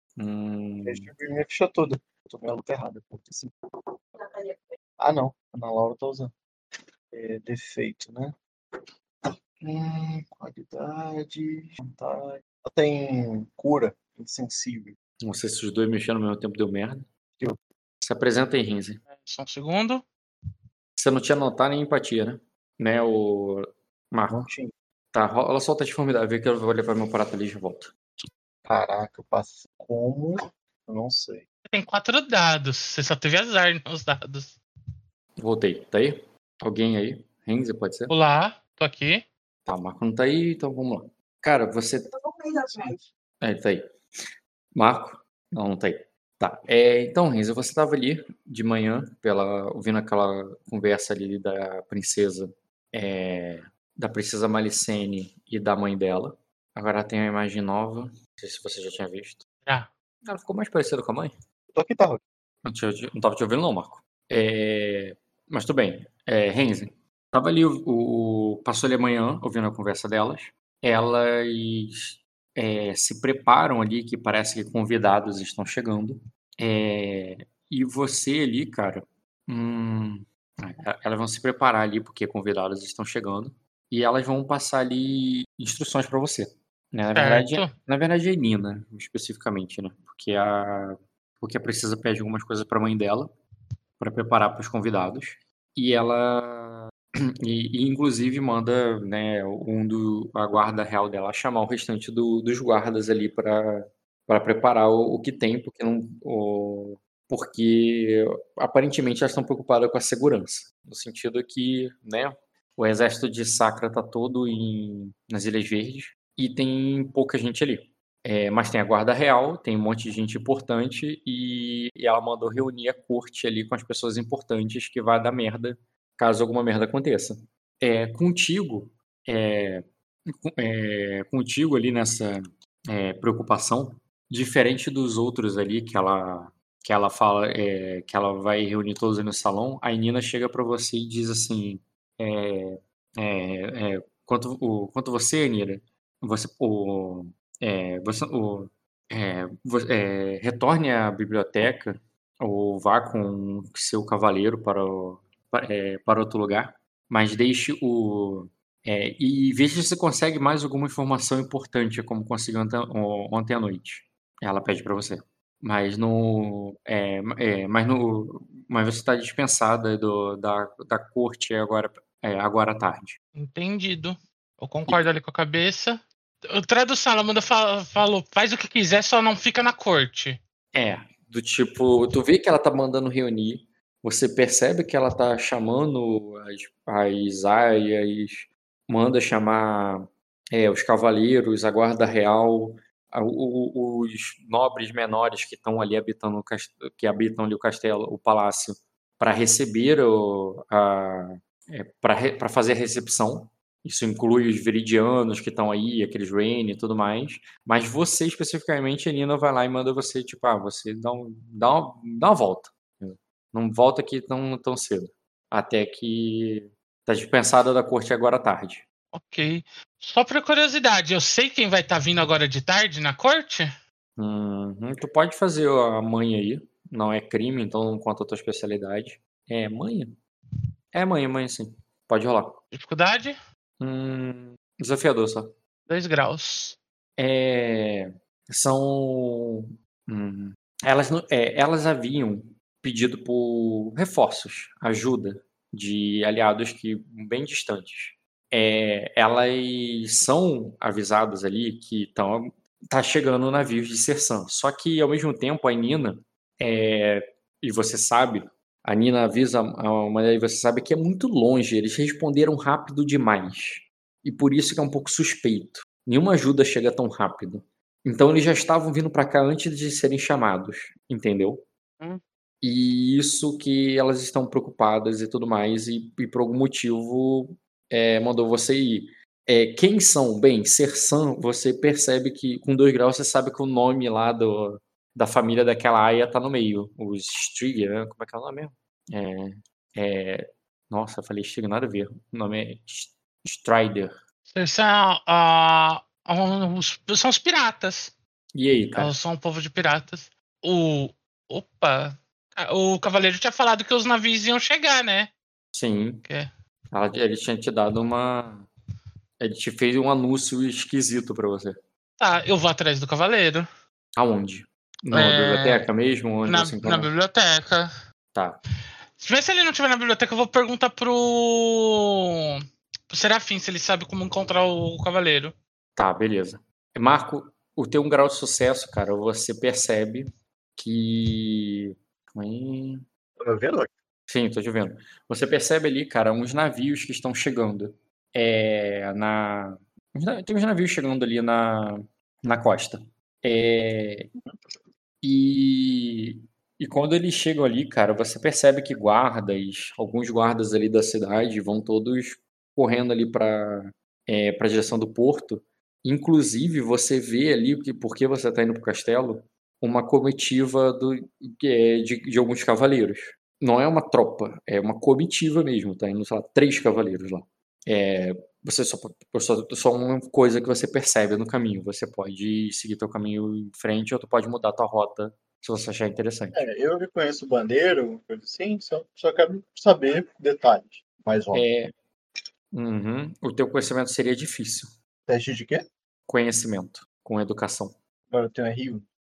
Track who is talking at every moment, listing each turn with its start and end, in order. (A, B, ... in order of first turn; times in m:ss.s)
0:00.2-0:01.1 A
0:00.8-0:06.3 B
0:07.1-0:08.4 B
0:09.2-0:15.0 B
0:15.2-0:17.1 A
0:18.0-0:19.0 A
0:19.1-0:20.0 C
0:21.0-0:24.5 A
0:24.3-0:24.7 B
0:25.1-0:27.9 A
0:28.6-0:31.5 B
0:31.7-0:34.6 C
0:35.4-0:38.1 A
0:38.1-0:39.2 C
0:39.7-0:42.1 A
0:43.4-0:43.8 A
0:44.8-0:59.4 A
1:00.2-1:01.3 A
1:01.7-1:02.2 B
1:02.6-1:33.3 A
1:27.1-1:27.7 C
1:34.0-2:53.2 A
2:53.4-3:00.4 C
3:00.7-3:38.8 A
3:39.1-3:43.7 C
3:44.2-3:50.2 A
3:50.9-3:52.6 A
3:52.7-3:53.4 C
3:53.8-3:55.5 A
3:55.9-3:56.8 C
3:57.2-4:31.6 A
4:32.6-4:54.2 A
4:54.5-4:58.1 C
4:58.6-4:59.1 A
4:59.0-5:05.3 C
5:05.7-5:06.2 A
5:06.9-5:08.7 A
5:09.4-5:11.8 A
5:12.2-5:13.7 C
5:14.2-5:17.1 A
5:15.1-5:15.8 C
5:16.5-5:17.9 C
5:18.3-5:18.6 A
5:19.2-5:25.6 C
5:26.0-5:33.0 A
5:33.4-5:33.9 B
5:34.3-5:44.3 A
5:45.2-6:16.6 A
6:16.5-6:21.7 B
6:21.5-6:21.9 A
6:22.7-6:25.0 A
6:25.3-6:25.9 B
6:26.3-6:28.0 A
6:28.3-6:29.1 B